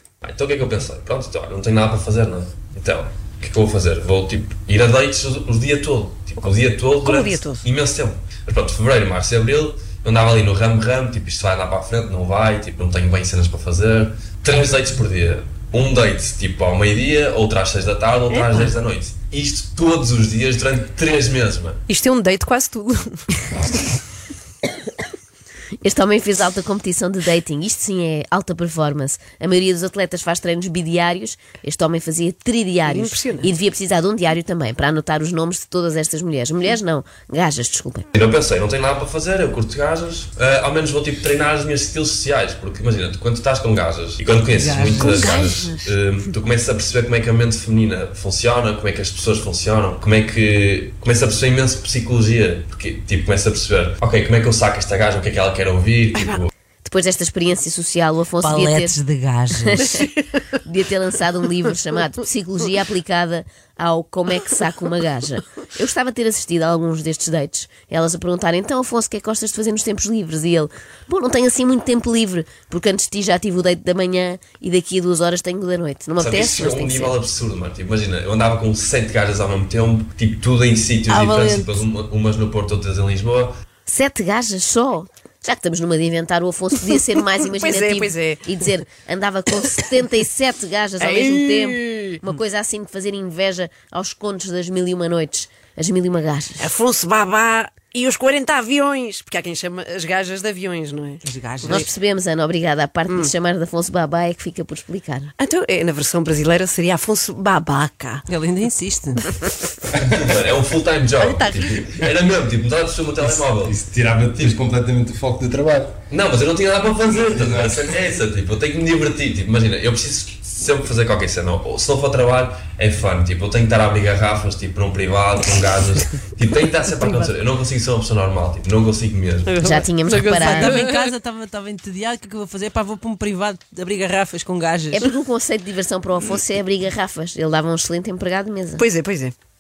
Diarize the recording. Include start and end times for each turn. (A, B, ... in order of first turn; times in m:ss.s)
0:00.2-0:21.8 A
0:07.0-0:07.6 B
0:18.3-0:18.7 B
0:21.9-0:23.3 B
0:25.8-0:38.1 C
0:32.8-0:33.5 B
0:38.1-0:56.5 A
0:44.5-0:45.1 D
0:45.0-0:45.8 B
0:56.8-0:59.0 C
0:58.4-0:59.8 D
0:59.5-1:17.2 C
0:59.8-1:00.2 B
1:16.2-1:23.5 A
1:21.1-1:21.8 B
1:23.9-1:36.7 C
1:27.4-1:28.5 B
1:31.0-1:32.2 B
1:36.6-1:41.2 B
1:41.2-1:41.9 D
1:41.6-1:45.3 C
1:45.4-1:48.2 B
1:48.3-1:49.2 D
1:49.2-1:49.9 B
1:50.1-1:53.8 A
1:51.2-1:52.0 B
1:53.2-1:56.0 E
1:56.1-2:09.6 A
1:57.3-1:57.9 E
2:09.5-2:10.8 B
2:09.6-2:10.8 C
2:10.1-2:15.0 D
2:14.9-2:18.8 C
2:18.8-2:19.4 B